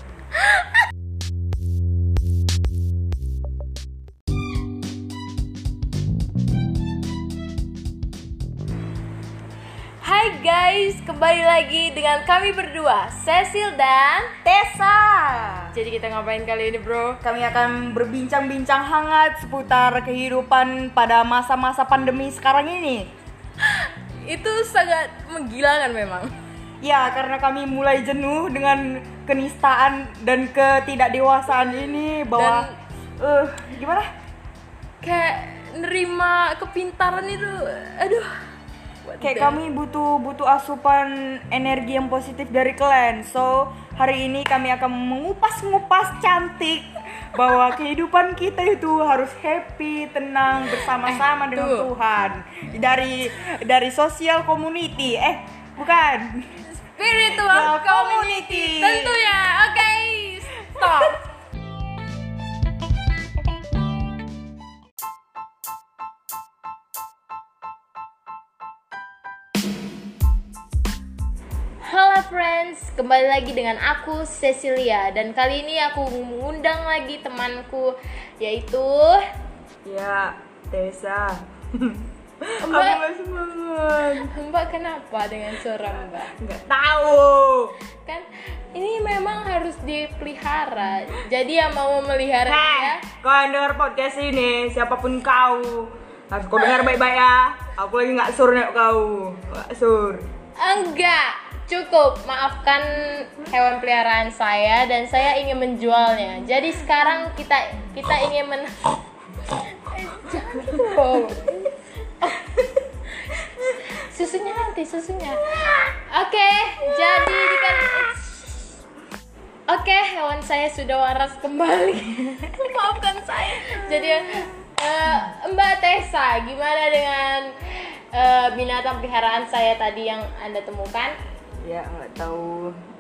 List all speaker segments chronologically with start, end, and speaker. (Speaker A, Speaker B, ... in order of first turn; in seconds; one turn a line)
Speaker A: 0.4-0.7
Speaker A: 10.0-14.3
Speaker B: 14.4-15.7
Speaker A: 15.7-17.2
Speaker B: 17.2-23.1
Speaker A: 23.6-26.3
Speaker B: 26.8-32.7
Speaker A: 31.6-32.8
Speaker B: 33.2-34.1
Speaker A: 35.0-38.3
Speaker A: 39.0-39.6
Speaker B: 39.2-56.4
Speaker A: 50.8-51.9
Speaker A: 56.6-61.2
Speaker B: 57.1-59.3
Speaker B: 60.8-61.1
Speaker A: 71.8-79.2
Speaker B: 79.8-84.3
Speaker A: 82.6-83.0
Speaker A: 84.2-86.3
Speaker B: 86.1-87.8
Speaker A: 88.0-93.0
Speaker B: 92.5-100.2
Speaker A: 100.6-109.0
Speaker A: 109.5-112.5
Speaker B: 110.5-111.3
Speaker A: 113.1-118.7
Speaker A: 119.7-131.2
Speaker B: 131.6-132.8